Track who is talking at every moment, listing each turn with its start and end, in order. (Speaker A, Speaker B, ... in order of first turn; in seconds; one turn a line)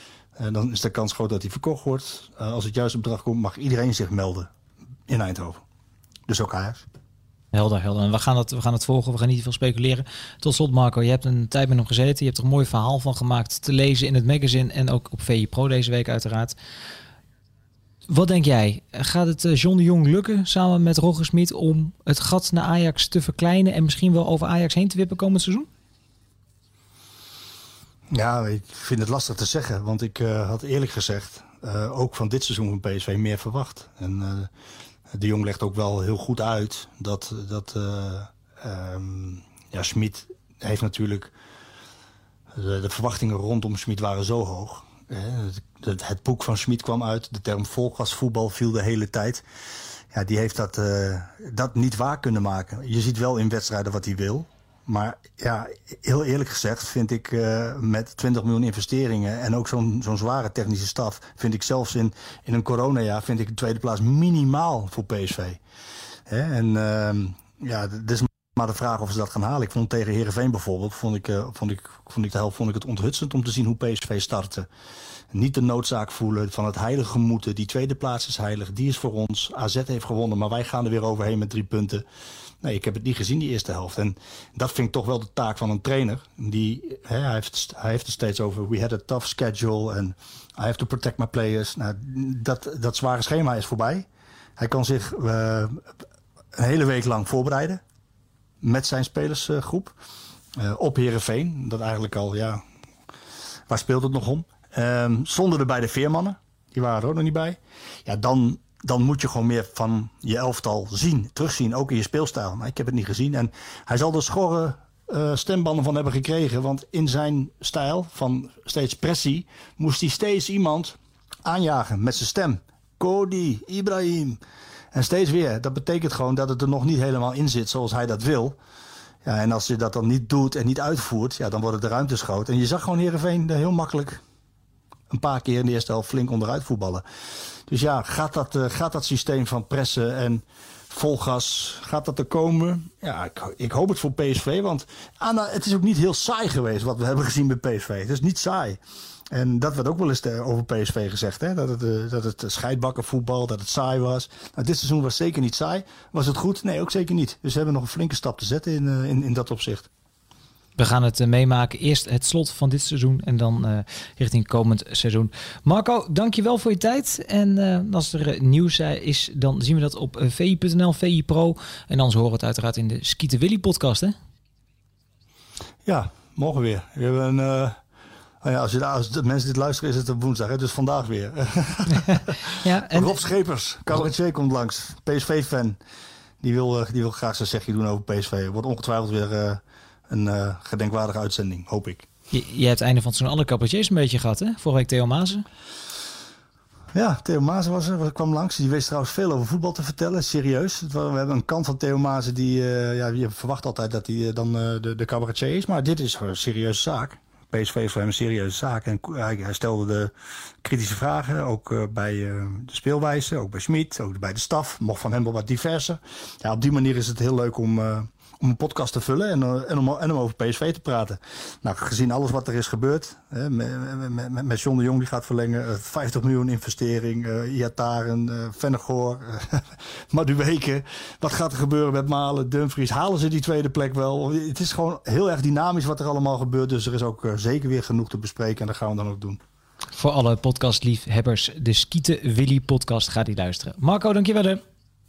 Speaker A: 0.4-4.5
Speaker A: 5.1-5.6
Speaker A: 6.3-6.8
Speaker B: 7.5-16.6
Speaker B: 18.1-25.7
Speaker A: 28.1-34.5
Speaker A: 35.1-41.3
Speaker A: 42.5-49.4
Speaker A: 50.1-65.6
Speaker A: 66.3-74.7
Speaker A: 75.3-82.1
Speaker A: 82.6-95.8
Speaker A: 96.5-97.8
Speaker A: 98.6-100.0
Speaker A: 100.6-102.6
Speaker A: 103.7-124.4
Speaker A: 124.9-128.6
Speaker A: 129.2-134.2
Speaker A: 135.1-137.0
Speaker A: 137.7-148.8
Speaker A: 149.3-159.9
Speaker B: 160.8-174.2
Speaker A: 175.8-177.8
Speaker A: 178.4-185.8
Speaker B: 182.6-183.2
Speaker A: 186.4-192.1
Speaker B: 192.3-195.4
Speaker A: 196.9-239.4
Speaker B: 239.9-244.6